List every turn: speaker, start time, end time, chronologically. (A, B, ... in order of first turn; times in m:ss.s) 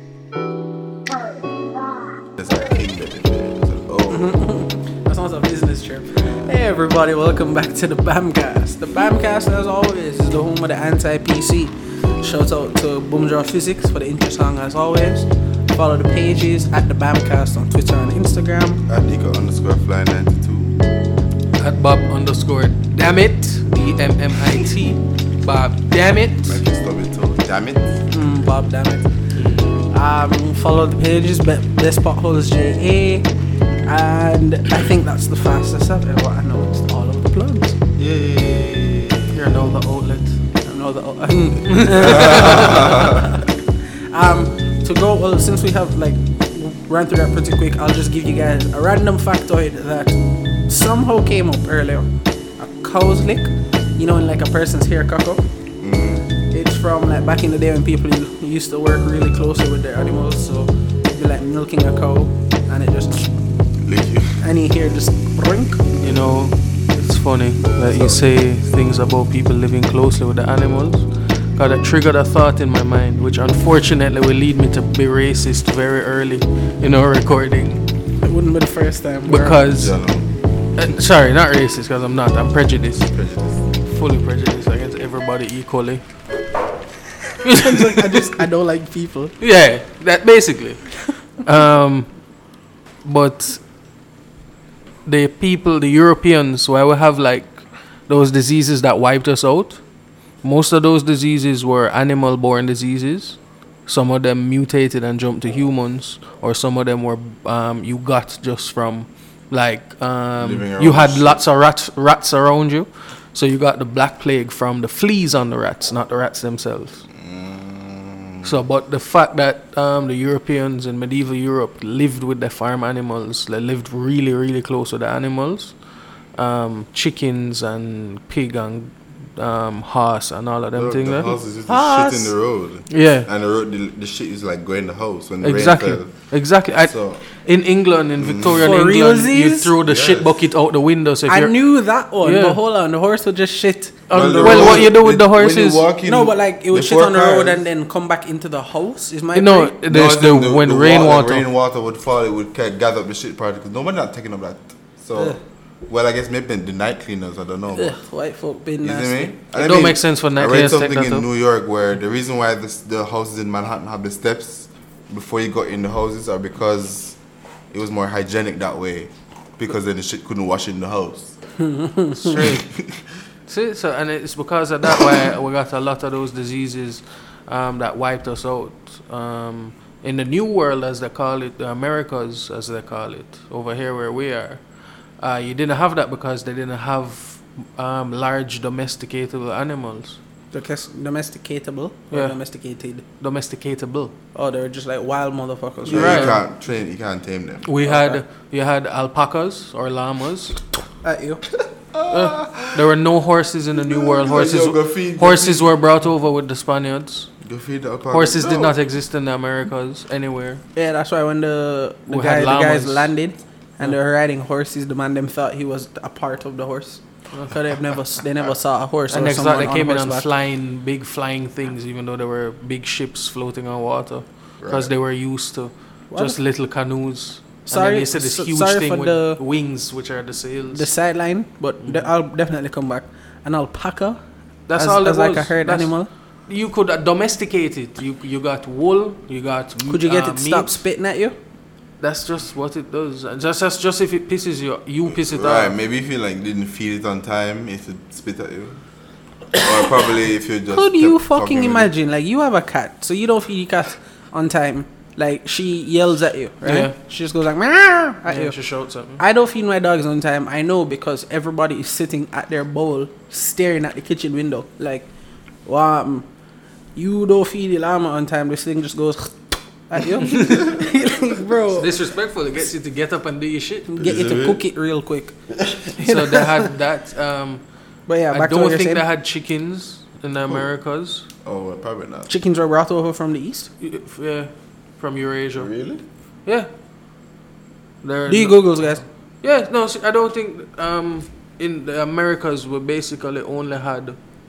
0:02.4-0:04.3 A
0:04.1-0:18.8 B
0:18.9-0:20.8 A
0:21.5-0:26.6 C
0:26.5-0:28.0 A
0:28.1-0:29.1 B
0:29.4-0:29.9 C
0:29.9-0:33.3 B
0:33.9-0:37.8 B
0:38.0-0:39.4 A
0:39.3-0:40.4 C
0:40.6-0:43.5 B
0:41.7-0:43.1 C
0:42.0-0:43.3 A
0:44.1-0:52.1 B
0:52.6-0:55.4 B
0:55.8-0:56.2 A
0:56.5-1:03.3 B
1:03.8-1:04.4 A
1:04.4-1:05.9 B
1:06.0-1:17.8 C
1:18.2-1:19.6 B
1:19.3-1:20.0 C
1:19.7-1:20.3 A
1:20.8-1:23.1 C
1:23.1-1:23.6 A
1:23.9-1:26.0 C
1:27.4-1:28.4 C
1:27.4-1:29.3 B
1:29.4-1:32.1 C
1:33.0-1:33.6 C
1:35.1-1:39.8 C
1:40.4-1:57.1 C
1:50.4-1:51.4 A
1:57.1-1:58.6 A
1:58.4-2:05.8 C
2:06.4-2:11.3 C
2:10.8-2:16.1 A
2:11.7-2:12.3 B
2:12.9-2:13.3 C
2:15.4-2:21.6 C
2:16.8-2:17.2 A
2:18.2-2:18.7 A
2:18.6-2:19.7 B
2:19.8-2:20.3 A
2:21.3-2:24.9 B
2:22.2-2:22.6 C
2:24.1-2:25.8 C
2:24.1-2:27.6 A
2:26.0-2:29.8 B
2:29.4-2:31.4 C
2:29.9-2:35.4 A
2:35.9-2:38.0 A
2:37.8-2:39.4 B
2:38.8-2:47.2 A
2:39.5-2:41.2 C
2:47.7-2:51.3 A
2:51.6-2:52.6 B
2:52.2-2:52.7 C
2:52.3-2:53.0 A
2:53.5-3:04.6 C
3:05.2-3:10.2 C
3:10.5-3:13.0 B
3:13.2-3:14.1 C
3:14.4-3:16.3 B
3:15.9-3:16.4 C
3:15.9-3:17.9 A
3:17.6-3:20.6 C
3:17.8-3:18.2 B
3:21.0-3:21.4 B
3:21.9-3:22.9 A
3:22.1-3:27.3 C
3:23.8-3:25.7 A
3:27.4-3:28.8 A
3:28.1-3:30.6 C
3:30.8-3:40.3 B
3:32.1-3:33.1 C
3:39.1-3:50.9 C
3:44.6-3:44.9 A
3:46.1-3:46.4 B
3:47.7-3:49.4 B
3:50.7-3:54.2 B
3:54.7-3:55.9 C
3:54.8-3:56.1 B
3:56.5-4:00.8 C
3:59.9-4:01.4 B
4:02.0-4:05.7 C
4:05.1-4:08.8 A
4:09.5-4:11.9 A
4:10.7-4:18.6 B
4:16.6-4:16.9 C
4:18.3-4:19.2 C
4:19.2-4:25.1 B
4:25.6-4:26.3 B
4:27.0-4:31.9 B
4:31.8-4:33.9 C
4:33.9-4:35.4 B
4:34.0-4:34.6 A
4:35.5-4:35.8 A
4:36.0-4:36.7 B
4:36.0-4:37.6 C
4:38.1-4:39.0 B
4:38.3-4:41.3 C
4:41.4-4:42.3 A
4:42.3-4:43.7 B
4:43.8-4:45.7 C
4:45.6-4:46.0 A
4:48.0-4:54.2 C
4:48.3-4:49.0 B